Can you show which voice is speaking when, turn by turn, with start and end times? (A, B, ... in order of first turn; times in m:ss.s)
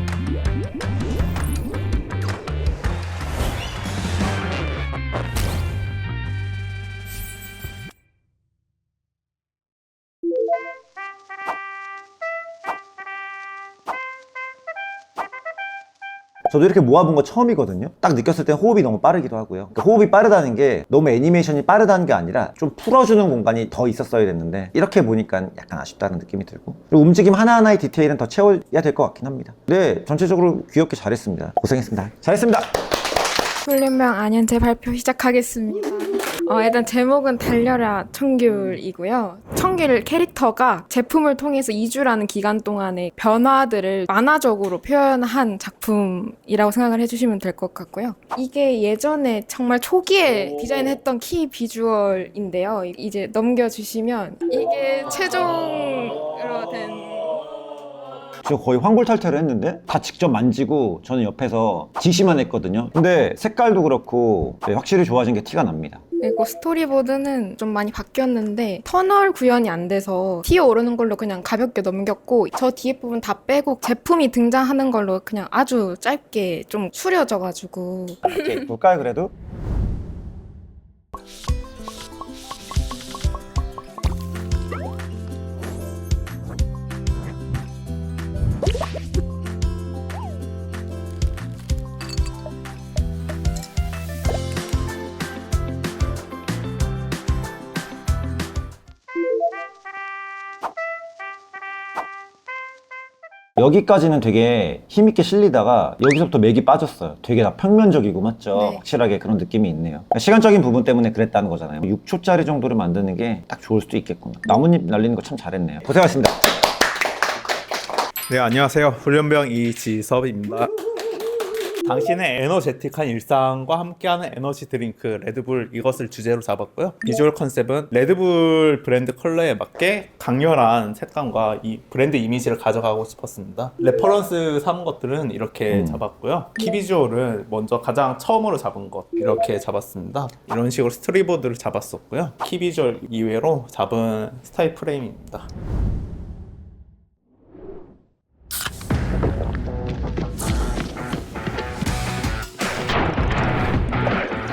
0:16.5-0:32.7 A
0:33.6-0:57.4 B
0:58.4-1:06.0 A
1:06.2-1:18.4 B
1:18.2-1:19.3 A
1:43.6-1:56.4 A
1:48.5-1:48.8 B
1:58.3-2:00.7 C
2:01.8-2:25.5 C
2:15.7-2:16.0 A